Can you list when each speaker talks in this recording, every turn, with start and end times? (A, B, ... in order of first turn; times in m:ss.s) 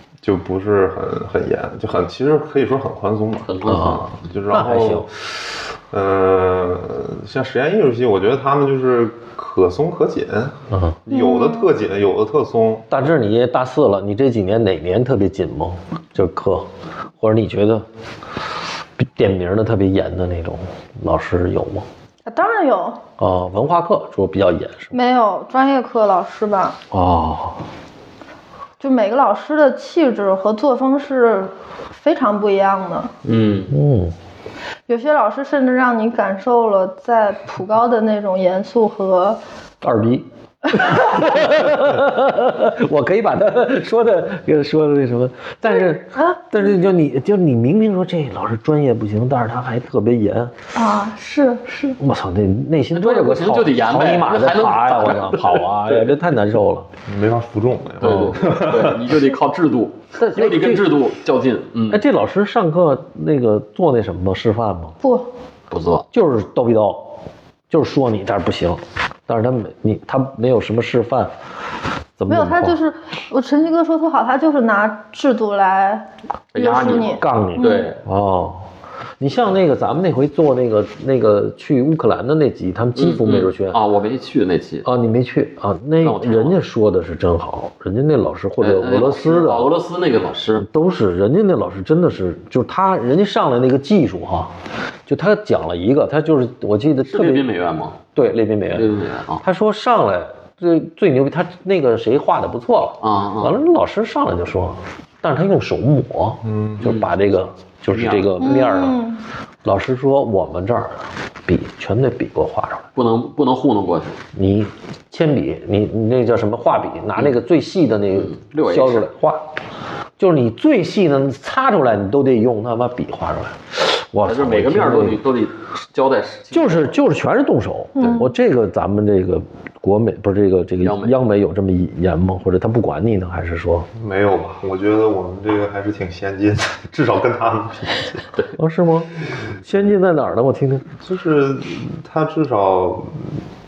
0:00.2-0:12.9 A
0:03.4-0:04.2 B
0:03.6-0:05.1 C
0:10.7-0:11.0 C
0:11.1-0:11.7 D
0:12.9-0:16.7 C
0:17.2-0:17.8 C
0:19.0-0:21.8 C
0:22.2-0:23.0 D
0:23.2-0:24.9 C
0:24.9-0:26.8 D
0:26.9-0:27.6 C
0:28.8-0:33.1 D
0:33.2-0:33.8 B
0:33.7-0:34.1 C
0:34.9-0:39.4 D
0:39.8-0:50.5 C
0:46.1-0:46.5 D
0:50.7-0:52.0 D
0:52.0-0:56.9 C
0:52.9-0:56.1 B
0:57.1-0:59.2 A
0:58.0-1:02.0 B
0:58.0-0:58.4 C
1:00.2-1:00.9 C
1:01.9-1:04.9 C
1:05.0-1:05.3 D
1:05.7-1:06.1 B
1:06.1-1:07.1 C
1:07.7-1:11.3 C
1:12.2-1:12.8 C
1:12.3-1:17.9 D
1:16.5-1:18.0 B
1:17.0-1:18.6 C
1:19.2-1:23.8 C
1:23.0-1:24.8 B
1:24.8-1:29.7 C
1:26.0-1:26.6 B
1:28.6-1:30.6 B
1:30.6-1:34.5 C
1:35.1-1:37.5 C
1:37.1-1:38.0 B
1:38.2-1:38.9 C
1:38.7-1:39.4 B
1:39.4-1:49.0 C
1:43.0-1:43.6 B
1:46.4-1:46.8 A
1:46.8-1:47.1 B
1:47.9-1:48.5 B
1:48.4-1:49.2 D
1:49.6-1:52.9 C
1:53.0-1:54.2 B
1:54.3-1:59.4 C
1:58.2-1:59.1 B
2:00.2-2:05.2 C
2:04.2-2:07.0 B
2:06.5-2:13.9 C
2:08.0-2:08.3 D
2:10.8-2:11.2 B
2:13.9-2:18.3 A
2:18.6-2:20.9 C
2:21.0-2:23.3 A